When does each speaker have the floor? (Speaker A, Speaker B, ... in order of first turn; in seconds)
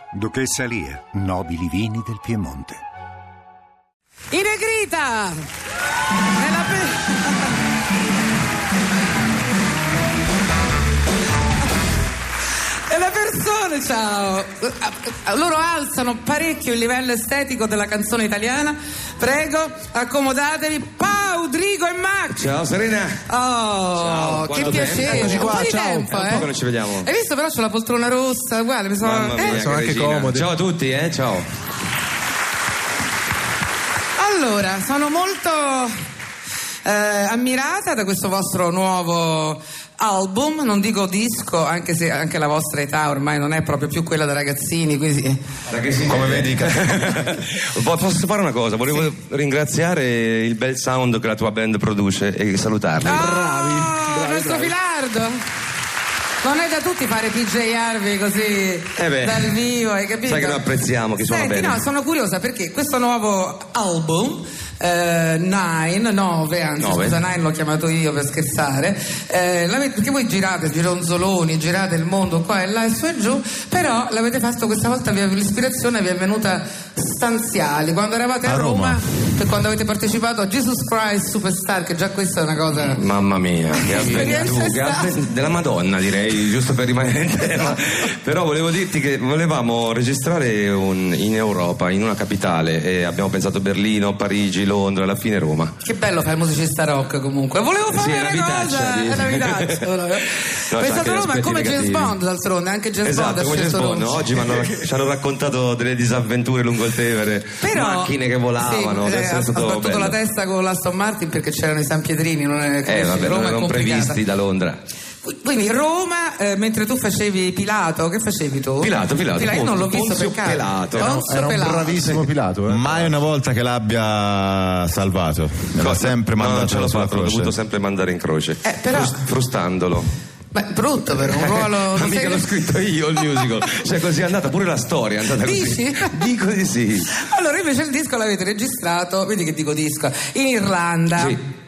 Speaker A: 0.2-2.8
Speaker B: 4.3-5.3, 6.3-7.5, 12.9-22.5, 23.2-29.6, 34.2-35.9, 36.8-45.4, 53.0-55.4, 56.4-60.6, 61.2-83.0, 83.7-85.1, 95.8-104.6, 107.6-114.2, 115.2-122.2, 128.6-129.2, 130.5-132.5, 135.4-136.2, 137.1-141.4
Speaker C: 22.3-23.2, 23.9-27.1, 29.0-31.5, 45.7-53.2, 58.9-59.6, 60.2-61.8, 66.8-67.2, 82.7-95.7, 97.9-99.9, 100.7-102.2, 103.0-110.2, 112.8-114.8, 118.8-121.1, 125.8-130.1, 131.3-137.1
Speaker D: 24.6-26.3, 29.4-30.5, 53.2-54.7, 121.0-123.2
Speaker E: 46.1-46.9, 78.5-79.0, 122.7-127.5